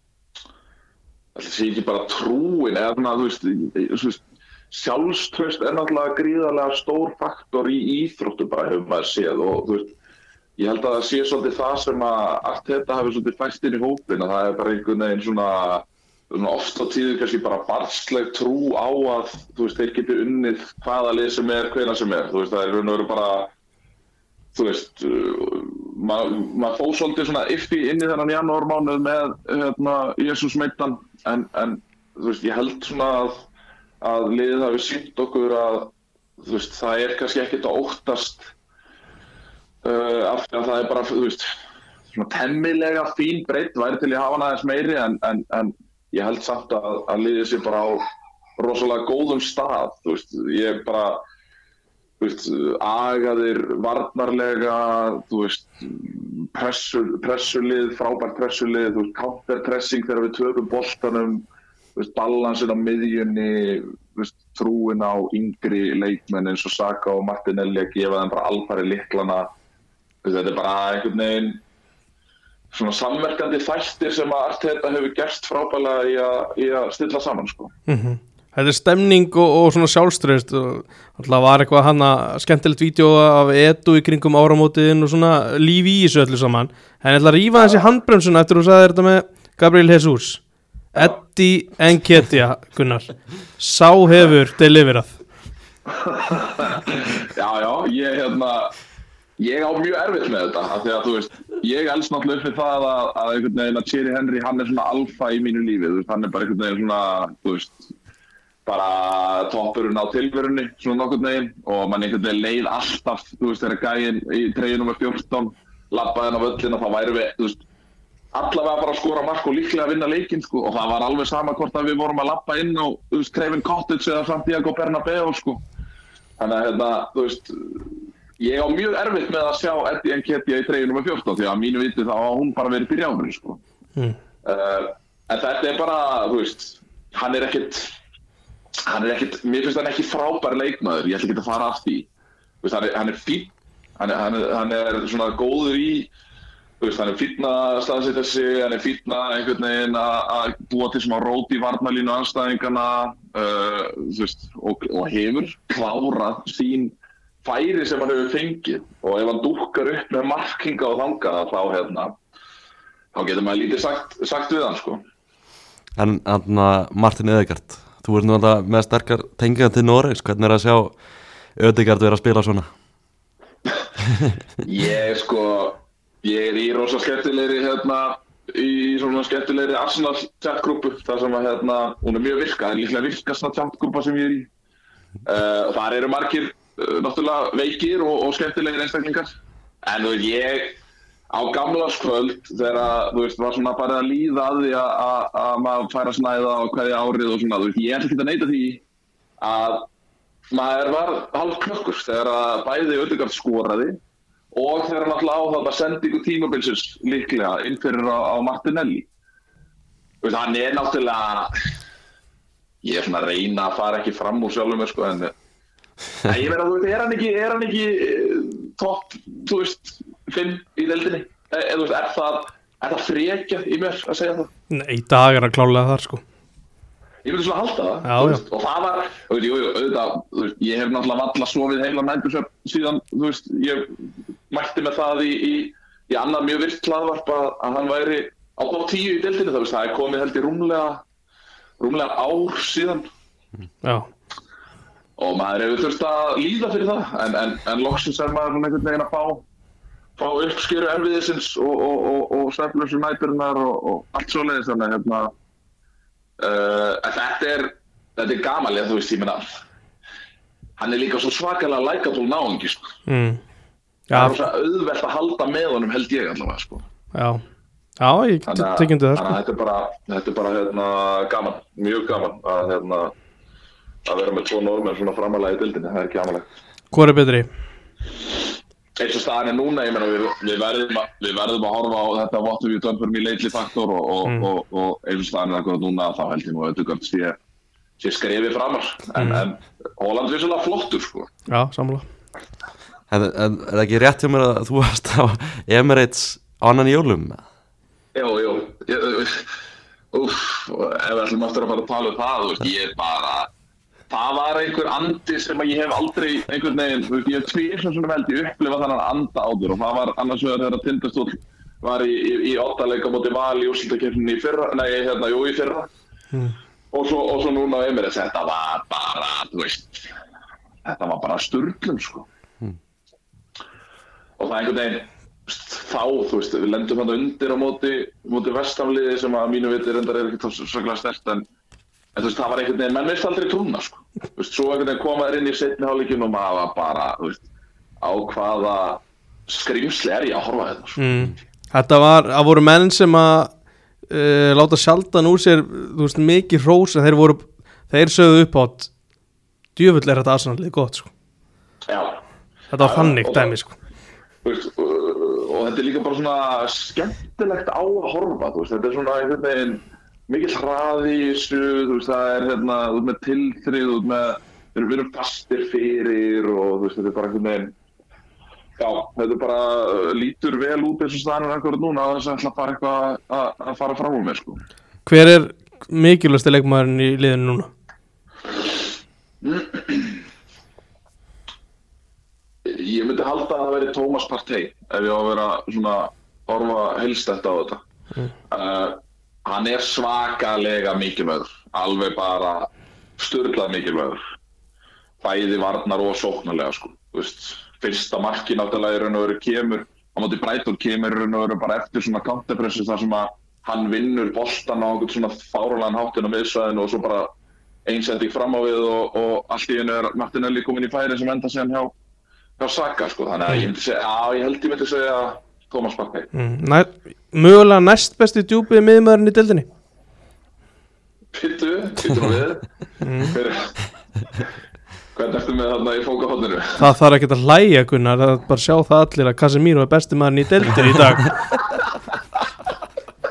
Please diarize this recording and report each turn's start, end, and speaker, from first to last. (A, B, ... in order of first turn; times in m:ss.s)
0:01.4-0:09.9 A
0:10.6-0:23.5 A
0:24.5-0:33.5 A
0:34.0-0:38.5 A
0:39.8-0:41.5 A
0:42.1-0:48.0 A
0:48.6-0:51.2 A
0:52.2-1:09.5 A
1:10.2-1:11.6 A
1:12.7-1:17.7 A
1:17.9-1:30.4 B
1:27.6-1:27.8 A
1:30.9-1:35.2 B
1:35.9-1:38.7 A
1:39.4-1:47.9 A
1:48.6-1:57.6 A
1:58.3-2:05.6 A
2:06.4-2:13.6 A
2:14.4-2:17.9 A
2:18.8-2:22.1 A
2:22.6-2:26.1 A
2:26.8-2:42.2 A
2:43.1-2:45.0 A
2:46.0-2:51.0 C
2:51.6-2:52.7 C
2:54.6-3:04.5 A
3:05.2-3:10.8 A
3:11.3-3:18.8 A
3:19.4-3:19.9 A
3:20.5-3:24.0 A
3:24.5-3:29.1 A
3:30.2-3:31.6 A
3:32.8-3:35.3 A
3:36.2-3:44.5 A
3:44.7-3:46.2 B
3:47.2-4:01.0 A
3:48.0-3:48.4 B
4:01.8-4:03.1 A
4:03.8-4:04.1 B
4:05.2-4:09.4 A
4:10.2-4:15.3 A
4:16.4-4:19.6 A
4:20.8-4:23.0 A
4:23.1-4:23.4 B
4:24.1-4:24.4 B
4:24.1-4:26.9 A
4:27.1-4:27.4 B
4:28.0-4:29.3 B
4:28.5-4:33.1 A
4:34.1-4:36.5 A
4:36.9-4:37.5 B
4:39.0-4:47.4 A
4:48.0-4:51.3 A
4:49.2-4:49.4 B
4:51.5-4:52.1 B
4:53.1-4:57.4 C
4:58.1-4:59.5 A
5:00.1-5:03.5 A
5:04.1-5:15.9 A
5:16.9-5:20.1 A
5:20.8-5:22.3 A
5:24.4-5:31.5 A
5:32.1-5:37.5 A
5:38.0-5:41.0 A
5:41.0-5:43.5 B
5:44.1-5:48.9 B
5:49.8-5:51.1 B
5:51.9-5:52.2 A
5:52.7-5:53.8 B
5:52.8-5:53.5 A
5:54.4-6:07.7 A
6:08.8-6:14.6 A
6:15.1-6:17.7 B
6:19.4-6:20.2 A
6:22.6-6:27.8 A
6:28.5-6:34.2 A
6:35.2-6:47.3 A
6:47.9-6:51.9 A
6:52.6-6:56.3 A
6:56.3-6:59.7 B
7:01.3-7:02.7 A
7:03.0-7:03.4 B
7:03.2-7:03.8 A
7:05.2-7:06.8 A
7:06.8-7:11.4 B